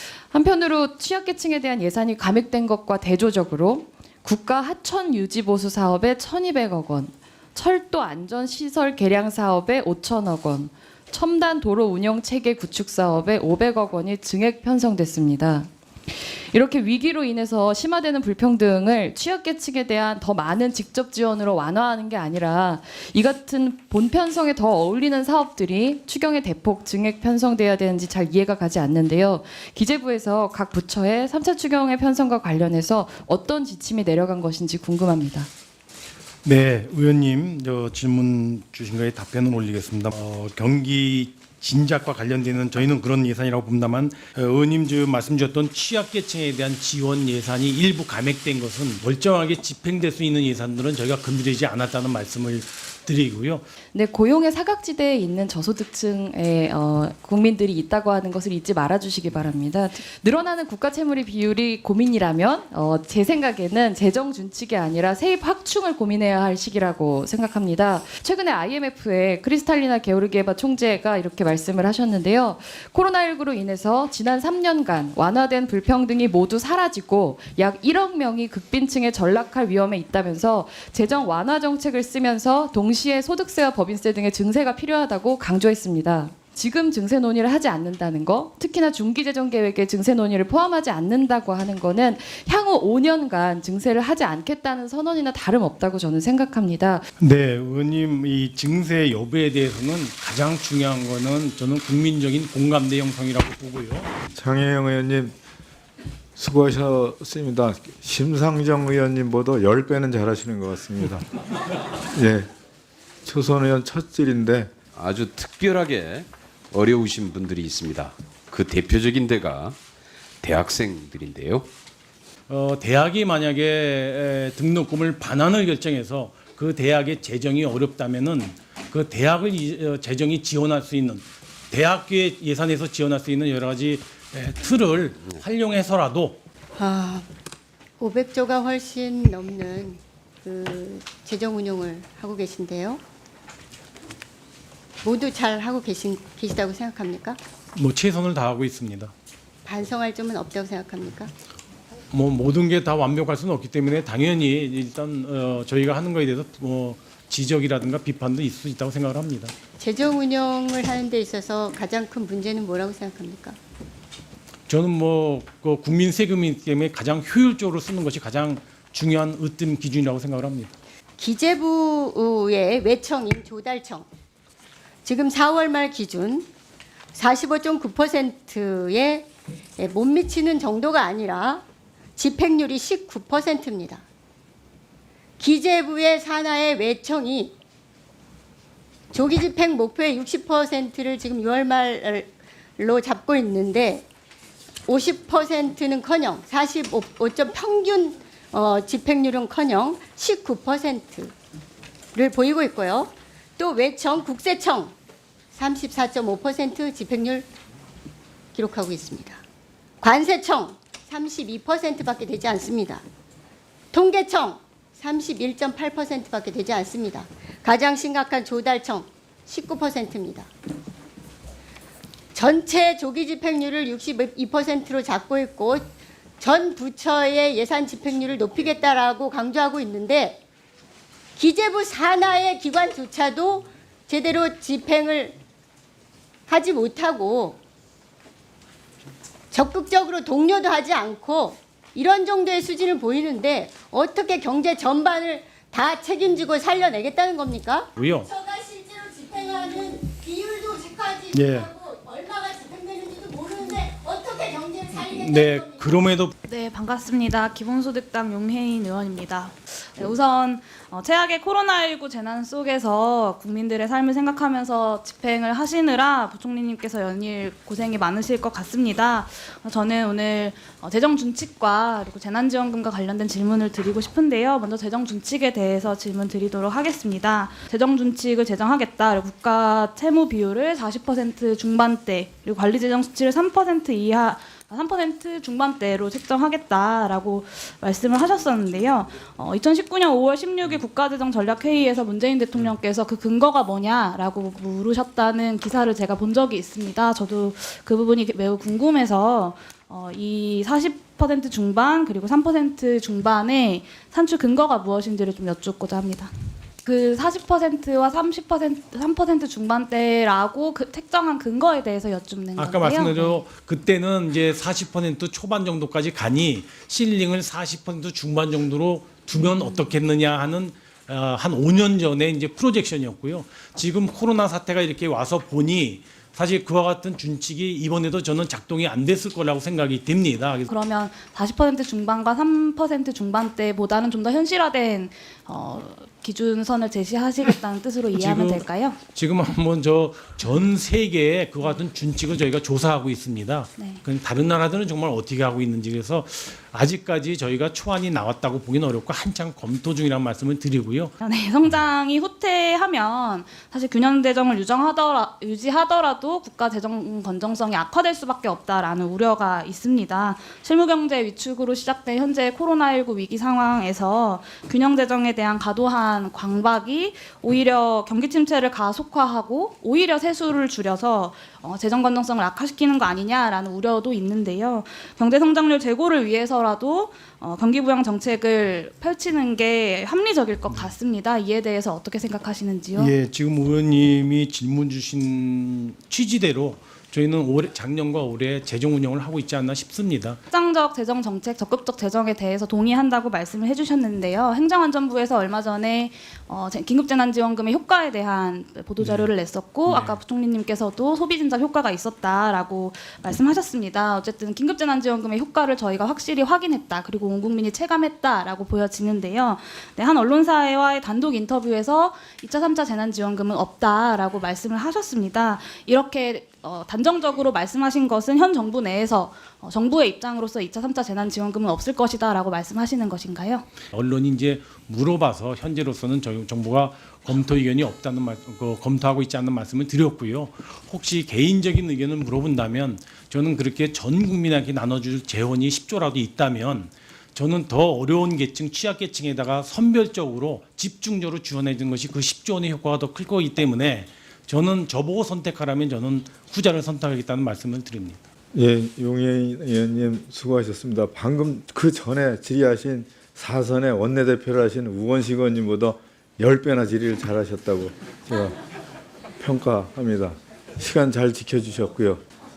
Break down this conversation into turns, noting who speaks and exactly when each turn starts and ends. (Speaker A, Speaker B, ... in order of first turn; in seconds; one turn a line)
Speaker A: 0.3-35.5
Speaker B: 36.4-53.6
Speaker A: 53.9-97.1
Speaker B: 97.2-104.1
Speaker C: 104.3-105.3
Speaker C: 106.3-111.2
Speaker C: 112.1-112.5
Speaker C: 113.2-114.7
Speaker D: 114.9-119.8
Speaker D: 120.4-121.7
Speaker B: 122.5-136.4
Speaker E: 136.8-137.3
Speaker E: 138.0-143.0
Speaker E: 145.0-147.4
Speaker B: 147.7-149.1
Speaker E: 149.6-151.3
Speaker B: 152.1-159.5
Speaker E: 159.8-163.6
Speaker B: 164.7-170.7
Speaker E: 171.2-174.1
Speaker E: 175.0-176.5
Speaker E: 177.1-181.6
Speaker E: 182.2-184.0
Speaker E: 185.4-187.5
Speaker E: 189.1-194.0
Speaker E: 194.9-201.3
Speaker E: 202.1-204.9
Speaker E: 205.5-207.5
Speaker E: 208.5-209.4
Speaker E: 210.0-213.0
Speaker E: 213.9-220.5
Speaker E: 222.3-225.8
Speaker E: 226.4-230.4
Speaker E: 231.3-235.4
Speaker E: 236.5-237.6
Speaker E: 239.5-256.0
Speaker B: 247.9-248.3
Speaker B: 251.3-251.7
Speaker B: 255.0-256.3
Speaker F: 256.4-306.3
Speaker F: 306.8-313.4
Speaker B: 312.6-330.7
Speaker F: 330.7-339.0
Speaker B: 338.1-351.1
Speaker F: 351.2-383.1
Speaker B: 382.9-390.4
Speaker F: 390.5-423.6
Speaker B: 399.0-399.3
Speaker B: 399.9-400.2
Speaker B: 423.9-448.2
Speaker C: 448.5-458.5
Speaker C: 459.4-462.2